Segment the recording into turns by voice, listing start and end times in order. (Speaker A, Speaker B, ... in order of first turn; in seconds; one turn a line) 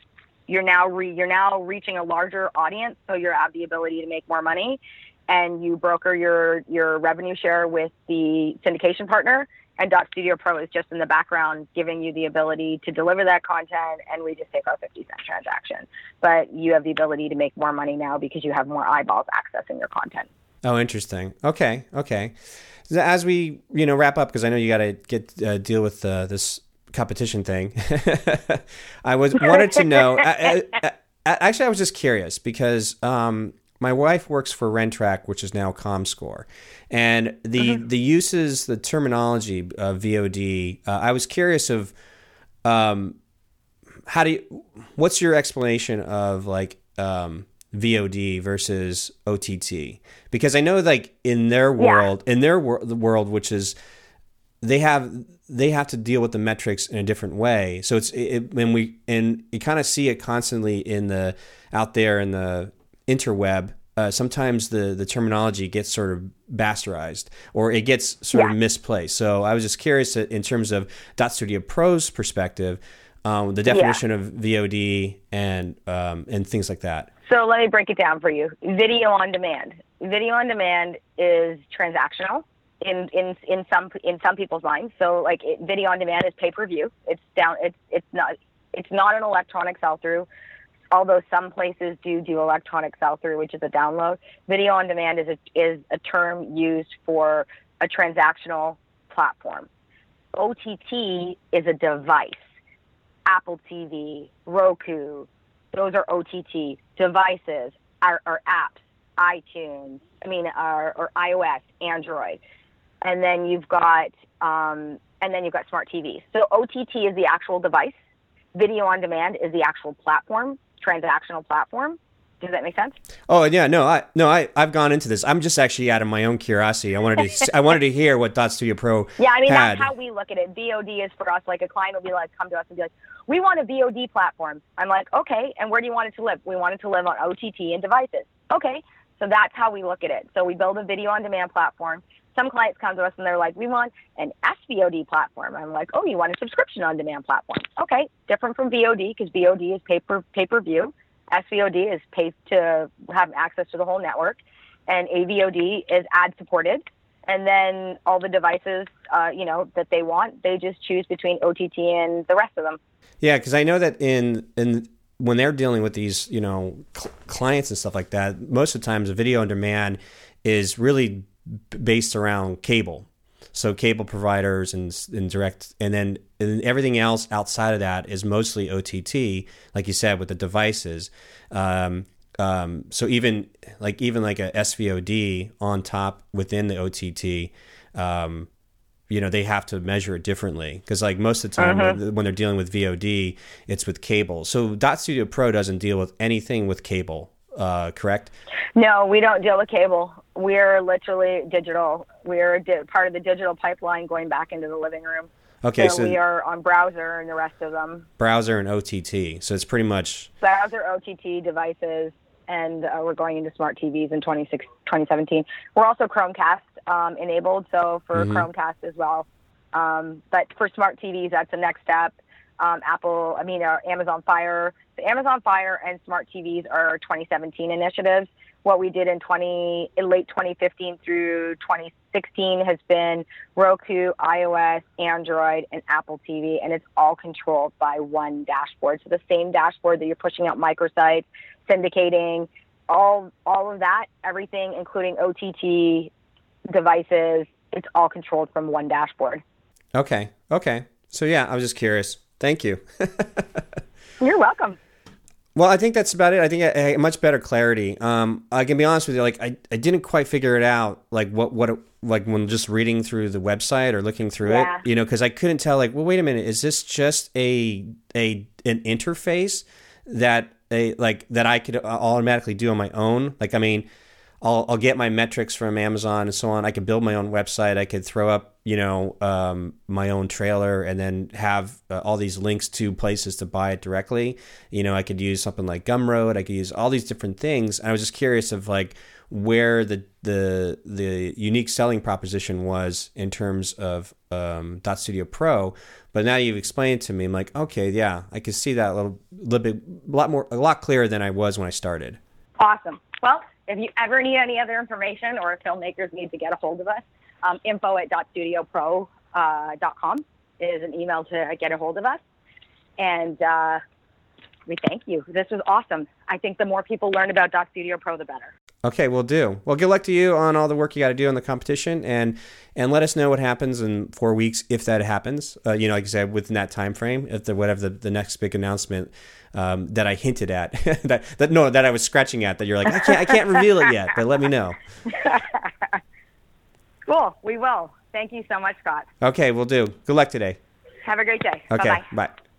Speaker A: 0.5-20.3
Speaker B: 20.6-22.3
Speaker B: 22.9-41.9
Speaker B: 42.6-43.1
Speaker B: 44.1-53.7
Speaker A: 51.8-52.0
Speaker B: 54.6-77.1
Speaker A: 73.7-74.0
Speaker A: 77.3-90.3
Speaker A: 90.9-99.7
Speaker A: 100.3-102.5
Speaker A: 103.2-112.4
Speaker A: 113.0-118.0
Speaker A: 118.5-123.0
Speaker B: 123.3-129.9
Speaker A: 129.2-162.8
Speaker B: 163.2-188.5
Speaker B: 189.1-198.3
Speaker A: 191.6-192.0
Speaker A: 198.8-208.1
Speaker B: 205.6-206.2
Speaker B: 208.2-210.3
Speaker A: 210.4-246.1
Speaker B: 218.1-218.4
Speaker A: 246.7-249.4
Speaker B: 249.9-253.8
Speaker A: 254.2-254.8
Speaker B: 255.5-273.9
Speaker A: 264.4-264.8
Speaker B: 274.4-302.2
Speaker A: 302.6-312.2
Speaker A: 313.0-313.8
Speaker A: 314.7-318.5
Speaker B: 318.8-334.8
Speaker A: 335.1-336.0
Speaker A: 337.1-339.1
Speaker B: 339.2-340.6
Speaker A: 341.0-342.1
Speaker B: 341.7-342.3